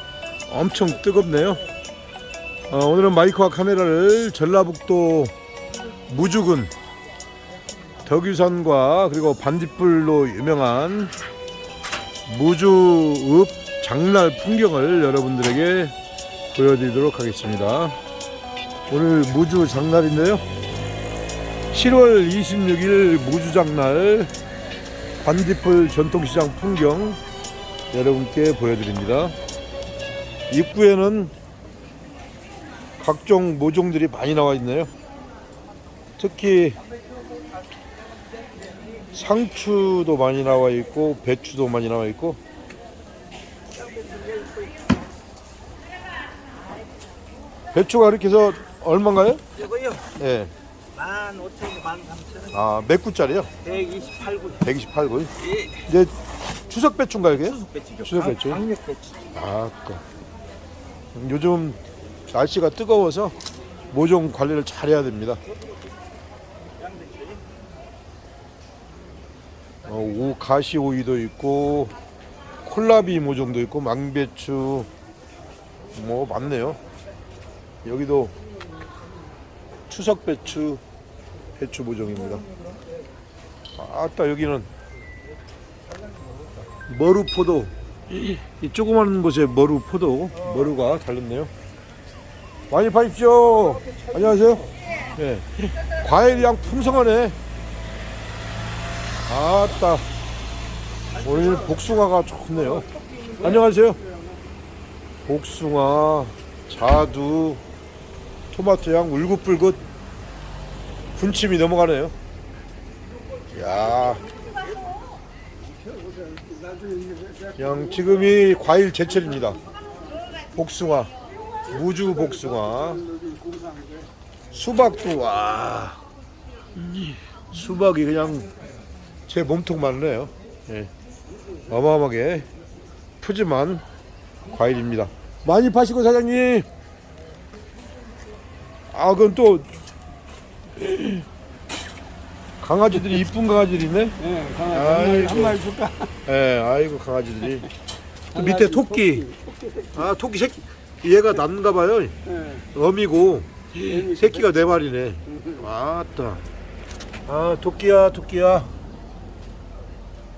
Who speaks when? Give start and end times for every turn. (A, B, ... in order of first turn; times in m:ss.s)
0:00.5-0:01.6 A
0:02.7-0:05.3 A
0:06.1-0:06.7 A
0:08.0-0:11.1 A
0:12.3-0:15.9 A
0:16.5-0:18.0 A
0:18.9-0:20.4 A
0:21.7-0:24.3 A
0:25.2-0:27.2 A
0:27.9-0:29.4 A
0:30.5-0:31.3 A
0:33.0-0:34.9 A
0:36.2-0:36.8 A
0:39.1-0:42.4 A
0:44.0-0:44.4 B
0:47.7-0:49.4 A
0:50.2-0:50.5 A
0:51.1-0:52.4 B
0:52.5-0:53.5 A
0:53.7-0:54.5 B
0:54.5-0:56.1 A
0:56.7-0:58.7 A
0:58.7-0:59.1 B
0:59.3-1:00.0 A
1:01.1-1:03.4 A
1:03.9-1:05.4 A
1:09.8-1:11.9 A
1:12.6-1:14.9 A
1:15.9-1:16.8 A
1:17.8-1:18.3 A
1:19.9-1:20.8 A
1:21.6-1:22.4 A
1:23.8-1:24.7 A
1:26.9-1:31.5 A
1:32.7-1:37.4 A
1:39.3-1:40.0 A
1:41.2-1:44.0 A
1:45.2-1:47.6 A
1:48.5-1:49.8 A
1:51.1-1:52.1 A
1:53.5-1:54.2 A
1:56.2-1:57.3 B
1:57.6-1:59.6 A
2:00.5-2:01.1 A
2:01.7-2:03.1 A
2:03.3-2:04.0 B
2:04.5-2:06.0 A
2:06.8-2:08.5 A
2:09.3-2:10.9 A
2:11.7-2:12.5 A
2:13.2-2:13.8 A
2:14.5-2:16.7 A
2:18.9-2:19.7 A
2:20.8-2:21.1 A
2:22.6-2:25.6 A
2:24.3-2:26.1 B
2:26.2-2:27.7 A
2:28.3-2:29.3 A
2:28.4-2:29.1 B
2:29.9-2:32.2 A
2:32.7-2:36.4 A
2:34.0-2:34.2 B
2:37.2-2:38.7 A